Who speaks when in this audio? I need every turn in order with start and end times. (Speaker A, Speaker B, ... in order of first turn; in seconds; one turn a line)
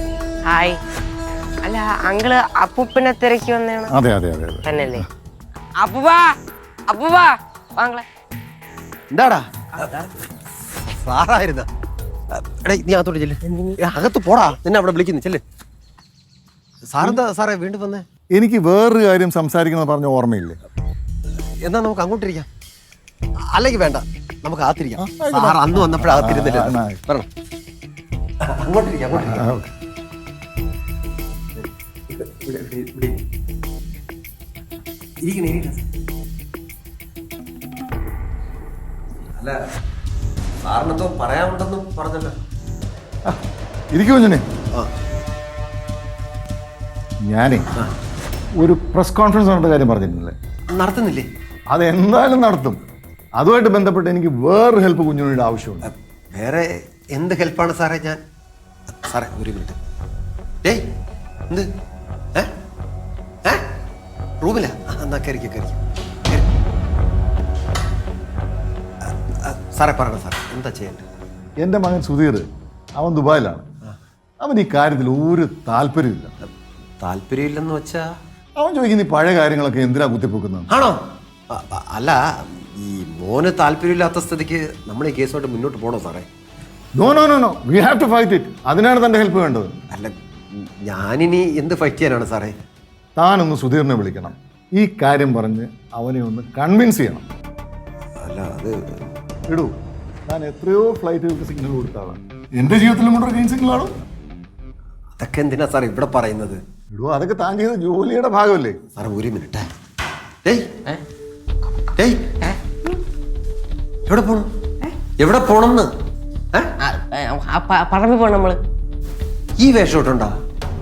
Speaker A: 0.5-0.8
Speaker A: 1.6-3.9
Speaker B: 3.9-5.0
Speaker A: 4.6-5.0
Speaker A: 5.8-6.3
Speaker A: 6.9-8.0
Speaker C: 9.1-10.0
Speaker C: 10.9-11.7
Speaker C: 12.3-15.4
Speaker C: 16.9-18.0
Speaker B: 18.4-20.6
Speaker C: 21.6-22.5
Speaker C: 23.5-27.3
Speaker B: 25.0-27.0
Speaker C: 28.4-29.4
Speaker B: 29.2-29.7
Speaker C: 31.6-33.2
Speaker C: 35.2-35.8
Speaker C: 40.6-42.4
Speaker B: 43.9-44.5
Speaker B: 47.2-47.7
Speaker B: 48.6-50.3
Speaker C: 50.7-51.3
Speaker B: 51.7-52.8
Speaker B: 53.4-55.9
Speaker C: 55.9-58.2
Speaker C: 59.0-59.8
Speaker C: 64.4-66.5
Speaker C: 69.3-71.0
Speaker B: 71.6-72.4
Speaker B: 73.0-73.6
Speaker B: 74.4-76.3
Speaker C: 77.0-78.1
Speaker B: 78.6-80.7
Speaker C: 80.7-81.0
Speaker C: 81.5-86.3
Speaker B: 87.0-89.8
Speaker C: 89.9-92.5
Speaker B: 93.2-97.2
Speaker C: 98.2-99.0
Speaker B: 100.3-103.9
Speaker C: 105.2-106.6
Speaker B: 106.9-108.8
Speaker C: 109.0-109.6
Speaker C: 114.0-114.5
Speaker C: 115.2-115.9
Speaker A: 116.8-118.6
Speaker C: 119.6-120.3